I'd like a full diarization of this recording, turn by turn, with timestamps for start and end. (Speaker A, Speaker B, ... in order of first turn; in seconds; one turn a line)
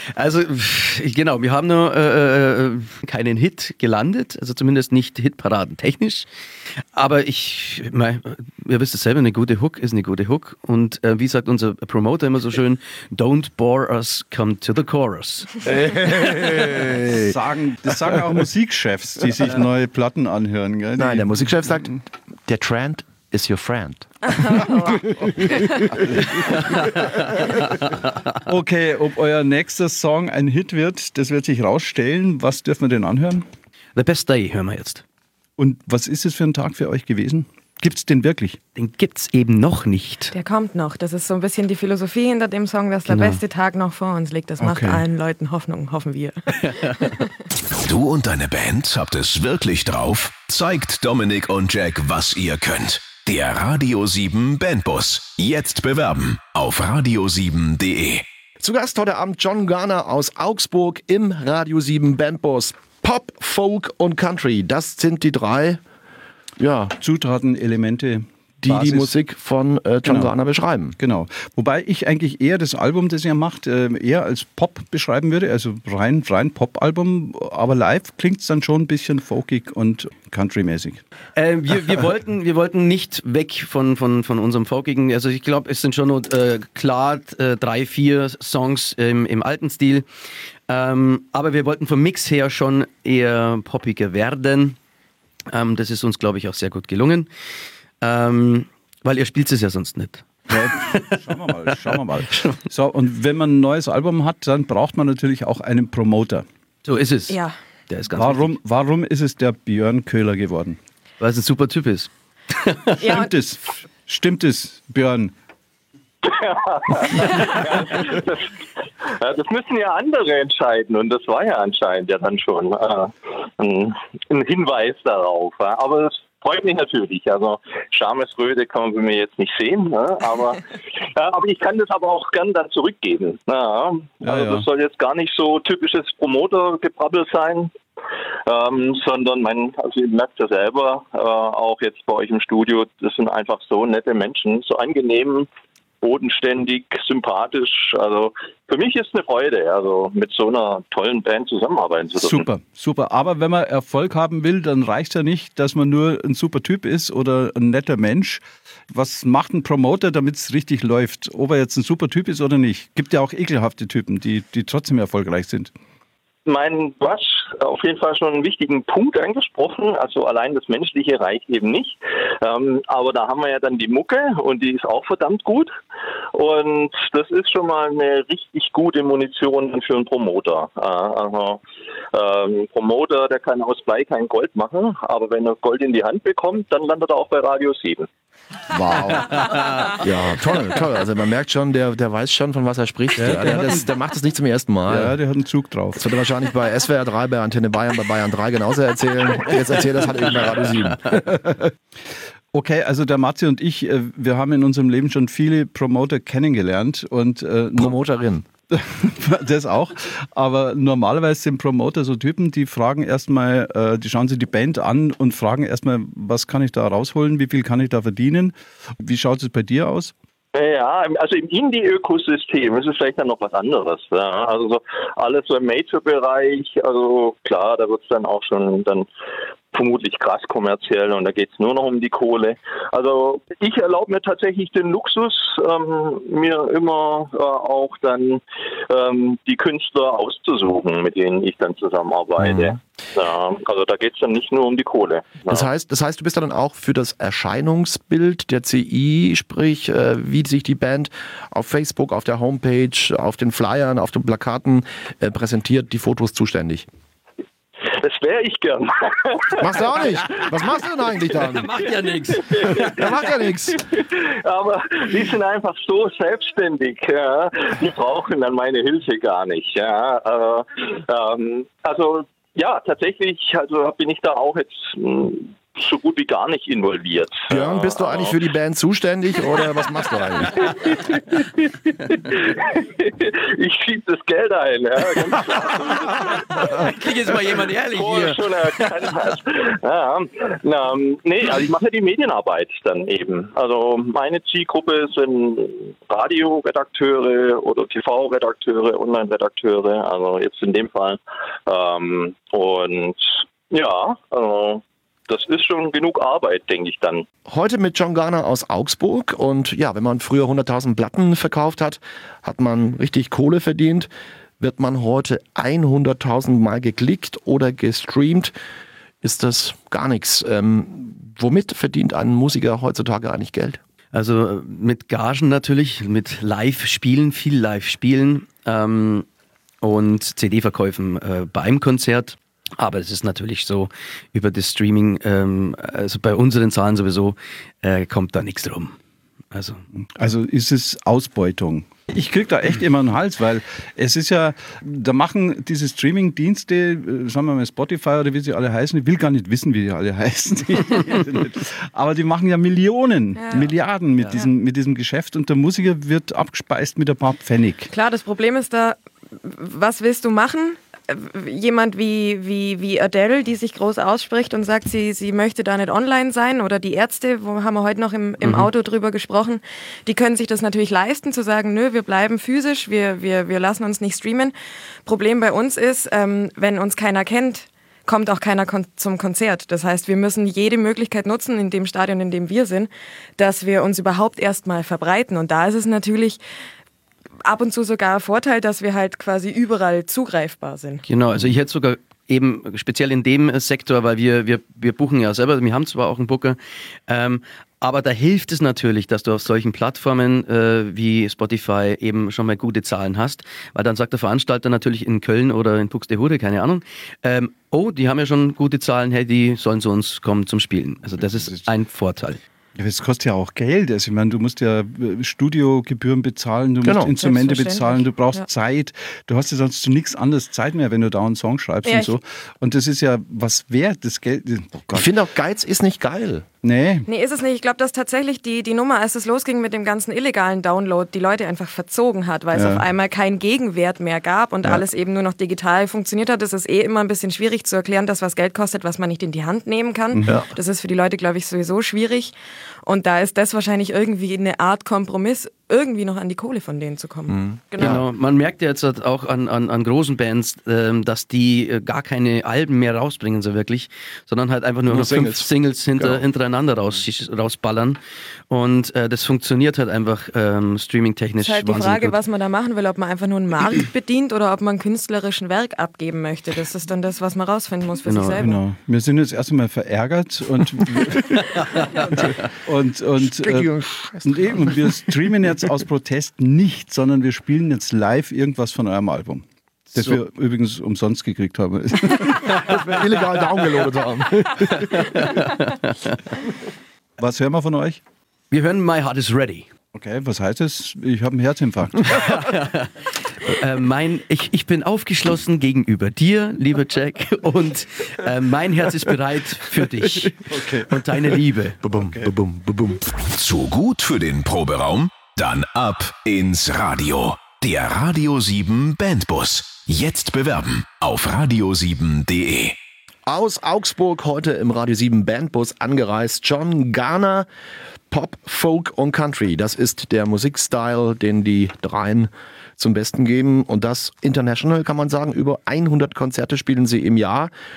Speaker A: 0.1-6.3
Speaker A: 7.0-15.7
Speaker B: 15.6-17.4
Speaker C: 17.1-22.0
Speaker B: 21.0-25.3
Speaker D: 24.2-25.9
Speaker C: 25.9-27.1
Speaker C: 28.5-33.4
Speaker A: 34.0-35.0
Speaker C: 35.6-38.6
Speaker A: 38.8-40.3
Speaker D: 40.3-47.3
Speaker A: 43.1-43.4
Speaker C: 44.6-45.0
Speaker E: 47.6-58.3
Speaker B: 58.6-65.8
Speaker B: 66.6-67.0
Speaker C: 67.0-69.1
Speaker B: 68.6-71.0
Speaker C: 70.1-70.3
Speaker C: 71.0-81.0
Speaker A: 81.4-90.0
Speaker A: 90.7-94.8
Speaker A: 95.5-97.3
Speaker A: 98.0-101.2
Speaker C: 100.5-106.5
Speaker A: 102.3-102.6
Speaker A: 106.8-107.4
Speaker D: 107.3-107.5
Speaker A: 107.9-108.6
Speaker C: 108.1-110.8
Speaker A: 111.2-113.0
Speaker D: 113.0-113.3
Speaker C: 113.0-115.3
Speaker F: 116.2-118.5
Speaker F: 119.0-137.7
Speaker C: 134.2-134.7
Speaker F: 138.5-145.5
Speaker F: 146.0-152.5
Speaker C: 152.2-165.7
Speaker F: 166.5-175.7
Speaker F: 176.3-181.6
Speaker F: 182.1-188.1
Speaker C: 188.7-189.6
Speaker A: 189.2-189.8
Speaker B: 190.0-195.2
Speaker C: 193.2-193.9
Speaker C: 194.9-196.0
Speaker B: 195.9-201.7
Speaker C: 202.5-208.0
Speaker B: 207.8-208.4
Speaker C: 208.7-220.1
Speaker F: 220.5-229.1
Speaker F: 229.7-245.7
Speaker B: 242.4-242.8
Speaker B: 245.5-256.9
Speaker F: 257.9-260.4
Speaker B: 259.6-261.7
Speaker A: 261.3-263.0
Speaker F: 262.4-263.1
Speaker B: 262.6-263.8
Speaker F: 263.9-278.4
Speaker B: 277.5-280.8
Speaker F: 280.6-286.9
Speaker A: 286.2-288.5
Speaker F: 287.9-307.3
Speaker B: 307.5-318.5
Speaker B: 319.2-323.8
Speaker A: 324.1-329.3
Speaker A: 329.8-339.0
Speaker A: 339.5-339.8
Speaker C: 340.0-357.9
Speaker D: 353.4-353.7
Speaker D: 357.9-374.5
Speaker A: 368.4-368.7
Speaker D: 375.1-386.4
Speaker D: 387.4-391.0
Speaker A: 391.1-412.4
Speaker C: 411.2-411.7
Speaker C: 412.8-425.1
Speaker B: 416.8-417.1
Speaker D: 417.2-418.5
Speaker D: 421.9-422.2
Speaker B: 424.9-426.5
Speaker C: 426.6-427.1
Speaker D: 427.1-442.3
Speaker C: 432.5-432.8
Speaker C: 440.1-440.4
Speaker D: 442.9-448.0
Speaker B: 447.3-448.1
Speaker A: 447.8-458.0
Speaker B: 454.9-456.2
Speaker A: 458.5-462.2
Speaker D: 461.4-468.6
Speaker A: 468.1-468.4
Speaker C: 468.4-473.7
Speaker B: 473.2-475.1
Speaker C: 474.2-482.7
Speaker A: 479.9-480.2
Speaker B: 482.3-485.3
Speaker A: 484.9-486.2
Speaker C: 487.2-488.0
Speaker A: 488.5-489.7
Speaker C: 489.9-492.2
Speaker A: 492.1-501.8
Speaker C: 500.5-501.0
Speaker B: 501.8-503.1
Speaker C: 501.9-502.3
Speaker E: 503.2-512.8
Speaker B: 513.3-517.5
Speaker B: 518.1-527.5